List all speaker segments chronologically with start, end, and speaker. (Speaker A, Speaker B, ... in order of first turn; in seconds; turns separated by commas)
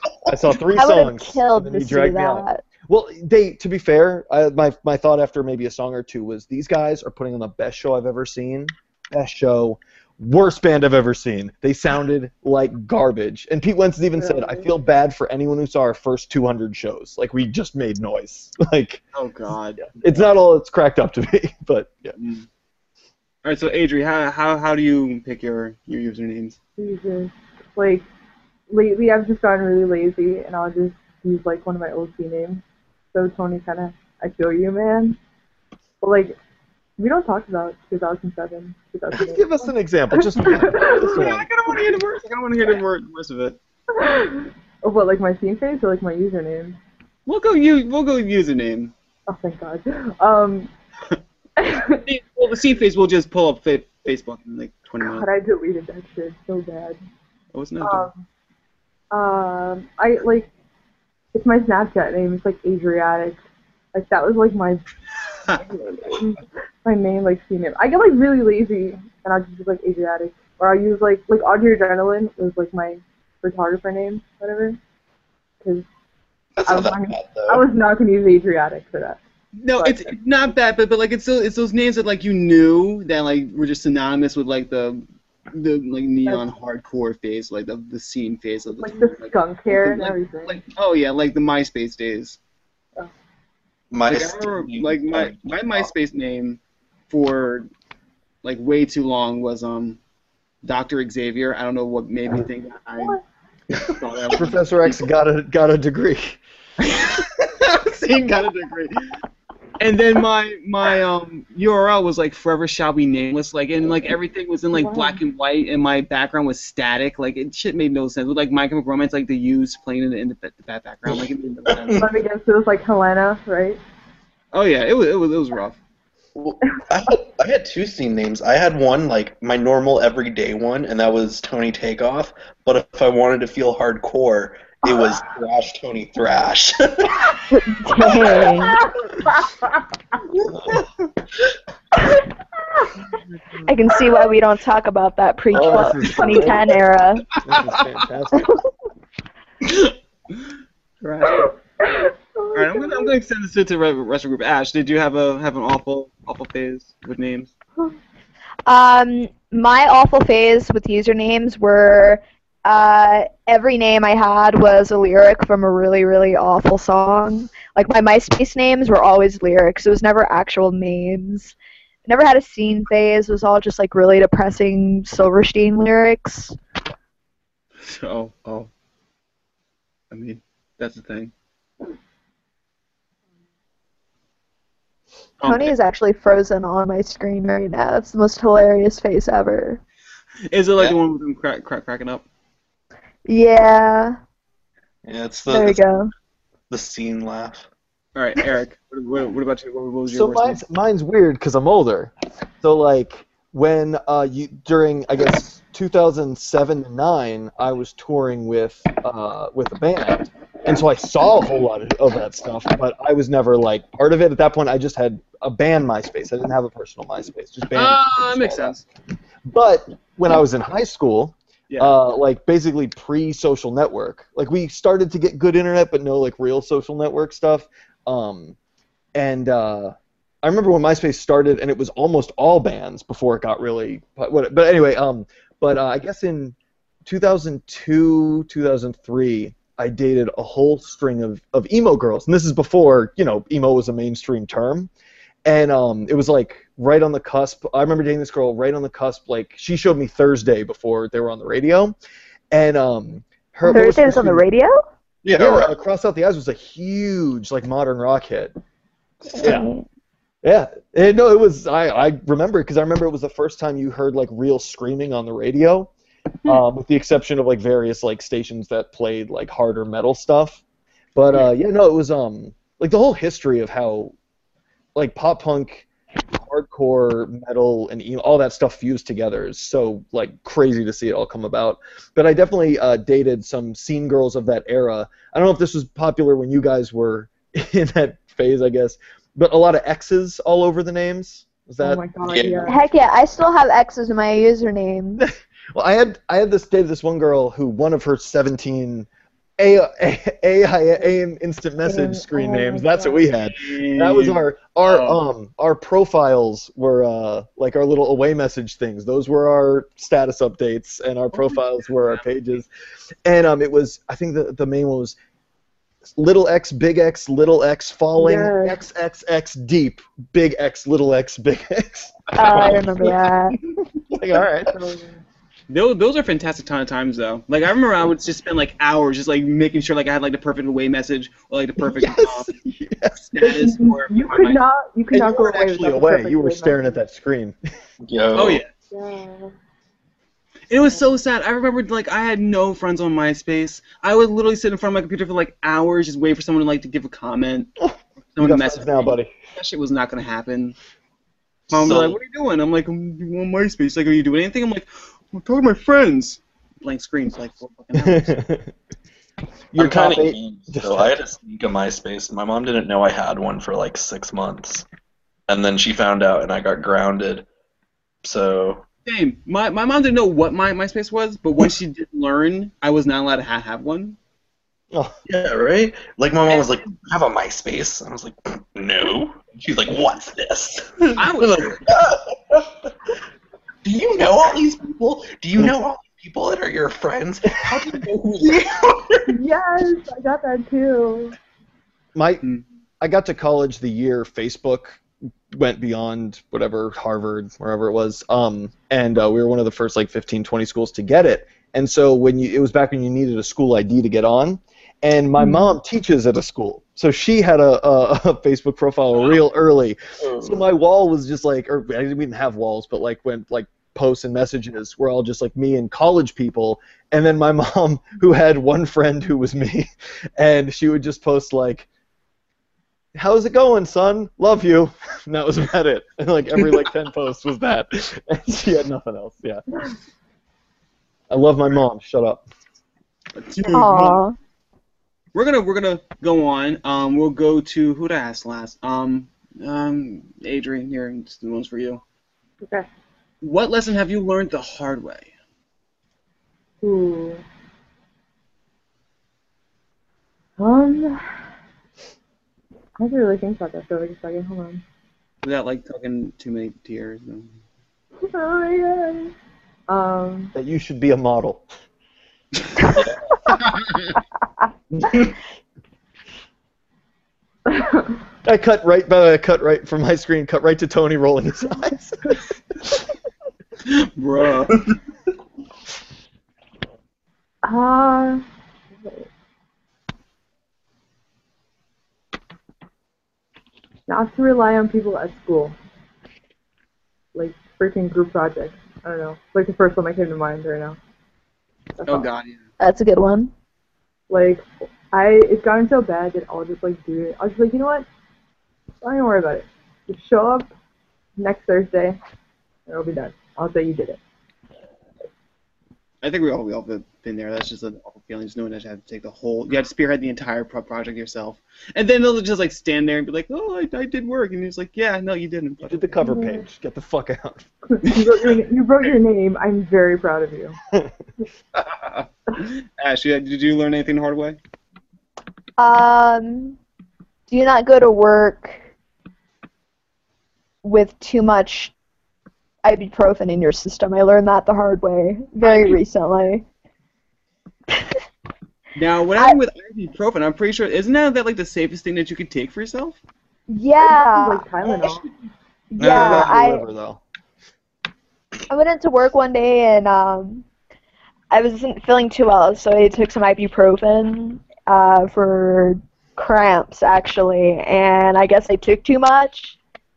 Speaker A: 0.3-19.0, Speaker B: 0.8-2.6, Speaker C: 14.2-14.7, Speaker D: 19.1-19.9, Speaker A: 20.0-22.1, Speaker D: 22.2-22.5, Speaker D: 23.4-26.6, Speaker C: 26.8-28.1, Speaker C: 28.7-35.2, Speaker C: 36.0-36.4, Speaker C: 37.0-41.4, Speaker A: 39.1-41.5, Speaker D: 40.8-43.6, Speaker C: 43.9-46.8, Speaker D: 47.3-48.9, Speaker C: 49.3-50.7, Speaker C: 51.6-52.0, Speaker D: 52.0-55.3, Speaker C: 55.0-57.0, Speaker D: 57.5-58.1, Speaker C: 57.8-58.2, Speaker C: 59.1-60.5, Speaker C: 61.3-63.4, Speaker C: 63.9-64.9, Speaker C: 65.5-74.8, Speaker C: 75.6-75.9, Speaker E: 76.6-77.7, Speaker C: 76.7-79.2, Speaker D: 79.6-92.4, Speaker E: 79.8-80.1, Speaker C: 88.8-90.6, Speaker E: 93.9-95.9, Speaker D: 94.1-96.6, Speaker D: 97.1-97.7, Speaker D: 98.4-100.0, Speaker D: 100.6-103.2, Speaker D: 103.9-105.0, Speaker A: 104.3-106.4, Speaker D: 106.8-109.1, Speaker D: 109.8-122.1, Speaker C: 114.8-115.2, Speaker E: 121.1-122.1, Speaker C: 122.0-123.8, Speaker D: 124.5-125.8, Speaker E: 126.4-137.4, Speaker B: 137.5-138.8, Speaker E: 138.0-138.7, Speaker C: 138.6-139.8, Speaker E: 140.3-140.9, Speaker D: 143.1-143.7, Speaker B: 143.7-147.2, Speaker A: 145.5-146.7, Speaker A: 147.4-148.6, Speaker D: 147.5-147.9, Speaker D: 149.6-150.4, Speaker D: 151.0-151.5, Speaker C: 151.3-153.1, Speaker D: 152.6-157.5, Speaker B: 158.7-171.6, Speaker B: 172.1-176.6, Speaker D: 177.8-178.7, Speaker D: 180.1-181.3, Speaker D: 185.4-185.7, Speaker B: 185.4-189.8, Speaker D: 190.5-192.2, Speaker B: 193.3-194.2, Speaker E: 195.1-195.8, Speaker B: 195.5-196.1, Speaker E: 196.7-197.7, Speaker D: 198.2-200.6, Speaker A: 200.1-218.7, Speaker D: 217.7-218.8, Speaker A: 219.5-228.6, Speaker D: 221.7-222.0, Speaker A: 229.2-244.9, Speaker A: 245.4-251.9, Speaker A: 252.5-254.4, Speaker B: 253.7-254.8, Speaker E: 255.2-255.7, Speaker A: 255.4-258.5, Speaker B: 259.3-259.9, Speaker E: 259.4-259.6, Speaker A: 259.4-259.7, Speaker A: 260.4-265.9, Speaker A: 266.4-270.6, Speaker A: 271.1-274.1, Speaker A: 274.9-292.1, Speaker C: 291.8-292.9, Speaker E: 292.2-292.7, Speaker B: 292.6-295.2, Speaker A: 295.2-312.7, Speaker C: 301.9-303.2, Speaker D: 303.4-305.2, Speaker D: 311.8-312.6, Speaker A: 313.2-315.2, Speaker A: 316.1-322.7, Speaker C: 318.2-318.8, Speaker B: 322.4-323.6, Speaker E: 322.4-323.3, Speaker A: 324.1-324.7, Speaker C: 324.6-325.2, Speaker D: 325.7-332.5, Speaker A: 331.8-333.3, Speaker D: 333.3-334.7, Speaker C: 333.4-336.9, Speaker A: 335.1-337.7, Speaker E: 338.0-338.6, Speaker D: 338.3-338.7, Speaker C: 338.9-339.5, Speaker D: 340.7-347.8, Speaker A: 347.8-349.3, Speaker D: 348.4-350.8, Speaker D: 351.7-358.4, Speaker E: 351.7-352.2, Speaker A: 357.9-358.7, Speaker A: 359.7-361.2, Speaker E: 359.8-364.9, Speaker E: 365.5-367.5, Speaker E: 368.2-368.8, Speaker D: 369.1-374.2, Speaker E: 375.3-383.1, Speaker D: 376.5-376.8, Speaker D: 381.2-381.8, Speaker E: 383.9-389.3, Speaker C: 389.3-391.4, Speaker A: 392.1-392.4, Speaker A: 393.0-395.0, Speaker A: 395.5-421.9, Speaker E: 410.2-410.6, Speaker A: 423.1-429.6, Speaker A: 431.3-432.5, Speaker D: 433.4-434.2, Speaker B: 433.7-434.4, Speaker D: 435.3-442.0, Speaker D: 443.4-445.3, Speaker C: 446.8-447.4, Speaker C: 450.6-451.3, Speaker C: 453.0-454.8, Speaker D: 455.4-457.6, Speaker C: 458.3-459.3, Speaker C: 459.9-460.5, Speaker A: 460.6-461.7, Speaker E: 464.9-465.3, Speaker C: 467.7-468.1, Speaker A: 468.4-472.8, Speaker D: 473.9-474.8, Speaker C: 477.6-478.4, Speaker C: 479.0-479.3, Speaker C: 484.1-485.8, Speaker C: 487.3-491.0, Speaker C: 492.0-492.3, Speaker D: 492.1-492.6, Speaker B: 492.8-493.5, Speaker C: 494.3-498.1, Speaker C: 499.0-500.7, Speaker C: 501.4-502.2, Speaker C: 502.9-504.2, Speaker D: 506.2-516.1, Speaker A: 515.8-517.7, Speaker C: 516.2-516.6, Speaker C: 517.9-520.8, Speaker D: 521.8-524.6, Speaker B: 525.8-526.8, Speaker B: 527.5-528.8, Speaker B: 530.8-531.9, Speaker B: 532.8-536.7, Speaker D: 535.6-536.0, Speaker D: 539.0-543.2, Speaker B: 543.7-544.7, Speaker C: 544.0-545.3, Speaker B: 545.9-546.9, Speaker E: 546.0-546.5, Speaker A: 546.0-547.2, Speaker B: 548.7-550.6, Speaker B: 551.5-559.8